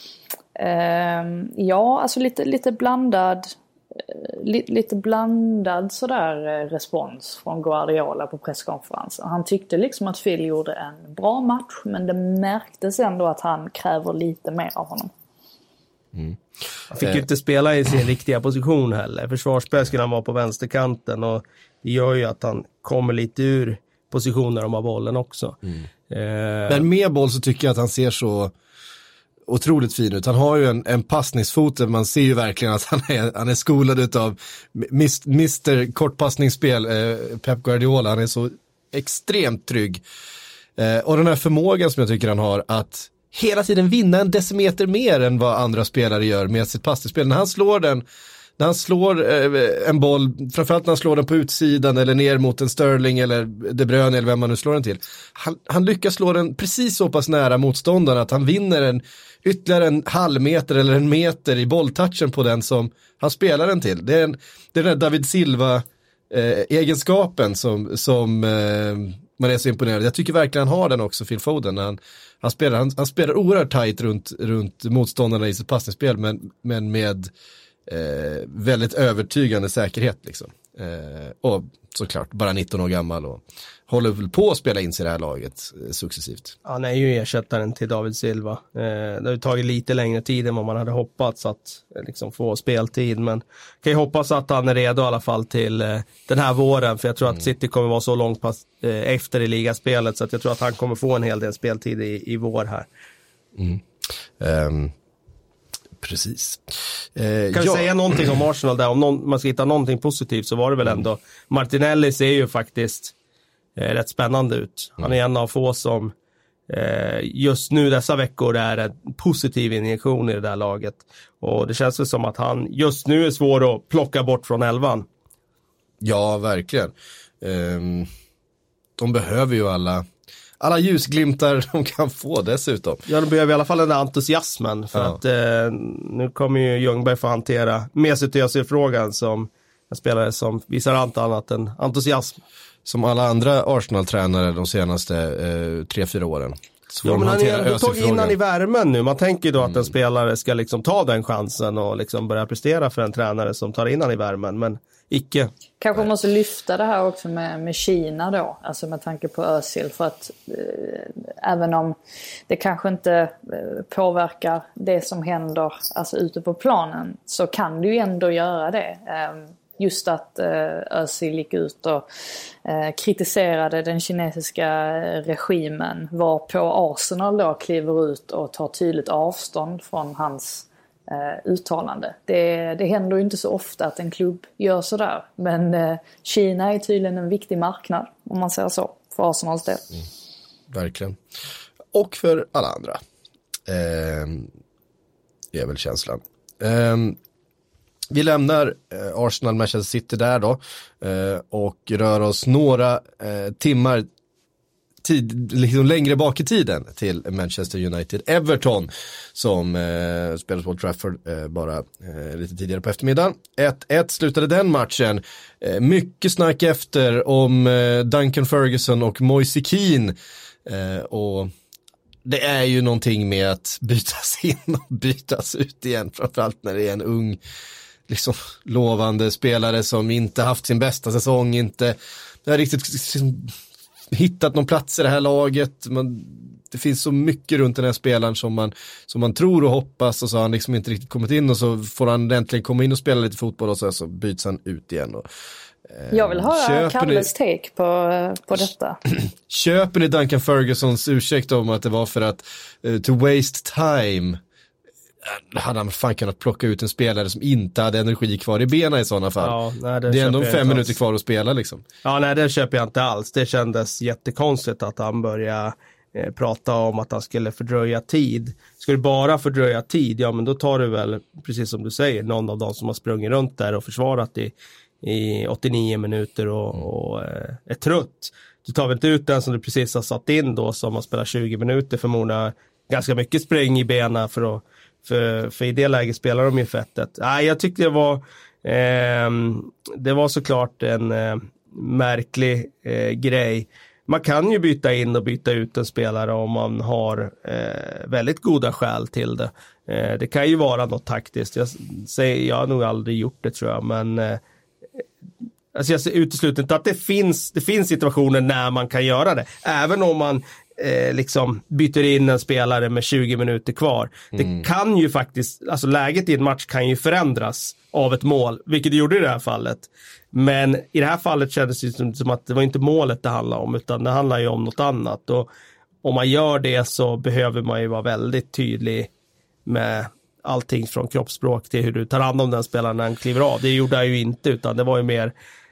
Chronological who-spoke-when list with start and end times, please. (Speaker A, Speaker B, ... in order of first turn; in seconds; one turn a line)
Speaker A: 0.5-15.1
Speaker B: 16.9-25.6
Speaker B: 26.1-26.8
Speaker C: 26.7-28.5
Speaker C: 29.5-40.0
Speaker C: 40.8-48.0
Speaker C: 48.6-77.3
Speaker C: 77.9-86.5
Speaker B: 86.7-102.9
Speaker C: 103.5-103.8
Speaker C: 104.4-104.9
Speaker C: 106.0-108.2
Speaker B: 107.5-113.1
Speaker B: 113.8-116.1
Speaker B: 116.7-125.1
Speaker C: 126.0-128.1
Speaker C: 129.0-130.1
Speaker C: 130.6-133.0
Speaker B: 133.1-142.4
Speaker C: 142.8-148.3
Speaker B: 147.0-155.5
Speaker C: 149.6-149.9
Speaker A: 155.8-161.9
Speaker A: 162.5-172.0
Speaker A: 172.6-189.9
Speaker C: 190.7-191.2
Speaker C: 191.9-193.0
Speaker C: 193.7-194.5
Speaker C: 195.5-197.2
Speaker C: 198.1-204.1
Speaker C: 205.0-220.1
Speaker C: 220.7-221.5
Speaker C: 222.2-227.4
Speaker C: 228.1-233.5
Speaker C: 234.1-245.2
Speaker C: 245.9-247.3
Speaker A: 246.1-249.0
Speaker C: 249.5-254.4
Speaker C: 255.2-259.5
Speaker B: 259.4-260.9
Speaker C: 260.1-261.8
Speaker B: 262.0-304.4
Speaker B: 305.7-325.5
Speaker C: 314.3-314.6
Speaker B: 326.0-329.1
Speaker B: 329.6-335.3